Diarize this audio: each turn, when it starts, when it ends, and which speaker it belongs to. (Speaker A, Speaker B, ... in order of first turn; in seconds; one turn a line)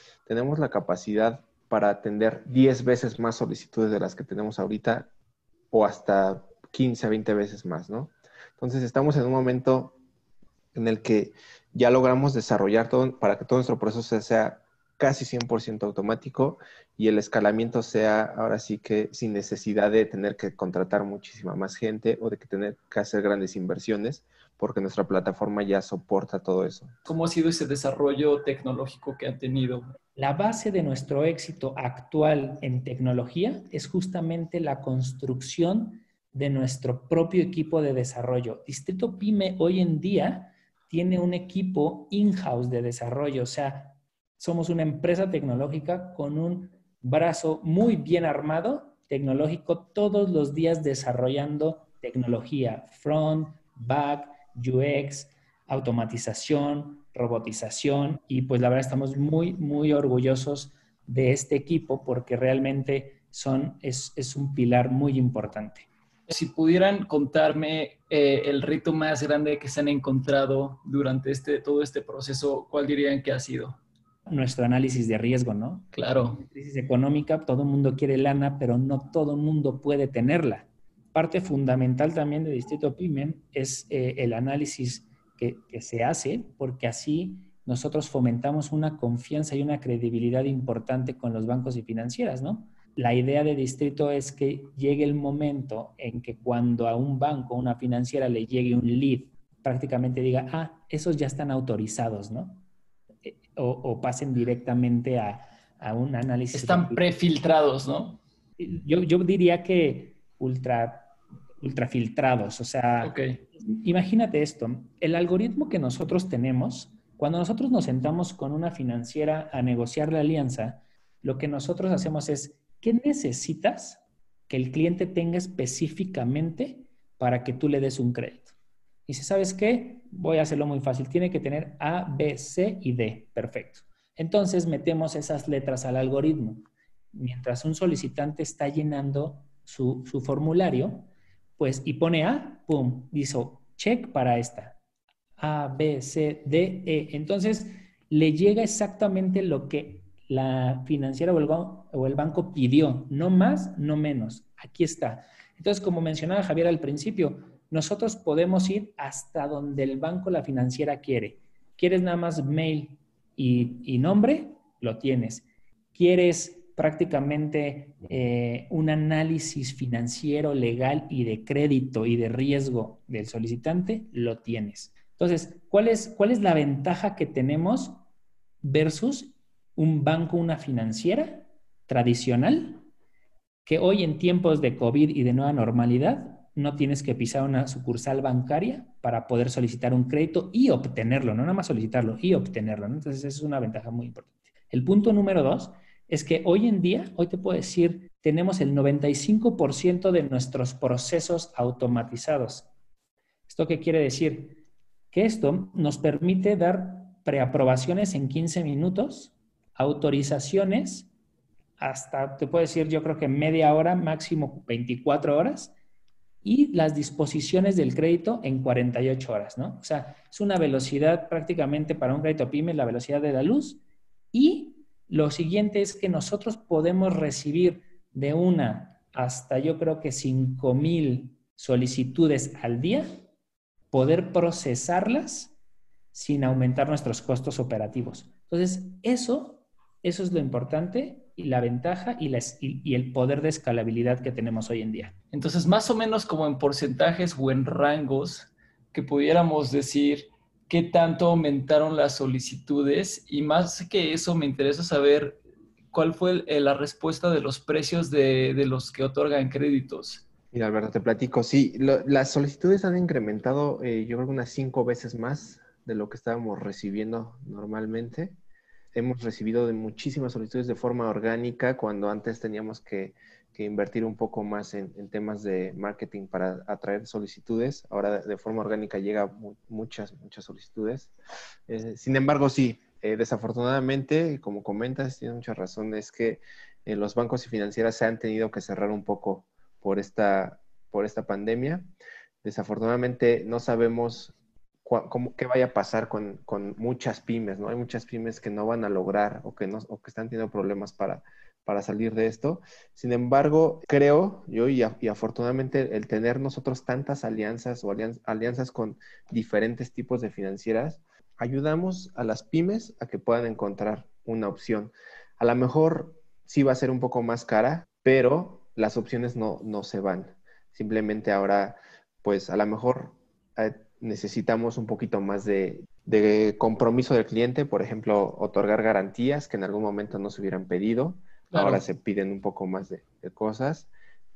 Speaker A: 0.3-5.1
Speaker A: 5.7-10.0
Speaker A: 10.7-26.9
Speaker B: 27.1-29.9
Speaker C: 30.2-65.9
Speaker B: 66.3-73.8
Speaker C: 74.3-102.7
Speaker B: 75.9-76.4
Speaker C: 103.2-107.0
Speaker B: 106.5-108.2
Speaker C: 108.6-128.5
Speaker B: 113.0-113.4
Speaker C: 129.1-144.8
Speaker C: 145.4-178.0
Speaker C: 178.6-182.8
Speaker C: 183.7-202.7
Speaker C: 203.5-204.6
Speaker C: 205.1-211.1
Speaker C: 211.8-215.7
Speaker C: 216.4-223.8
Speaker C: 224.3-233.2
Speaker C: 233.9-235.5
Speaker C: 236.1-245.1
Speaker B: 245.3-255.4
Speaker B: 255.9-260.2
Speaker A: 260.5-268.4
Speaker A: 268.9-281.1
Speaker A: 281.7-291.9
Speaker A: 292.4-333.9
Speaker B: 331.5-331.8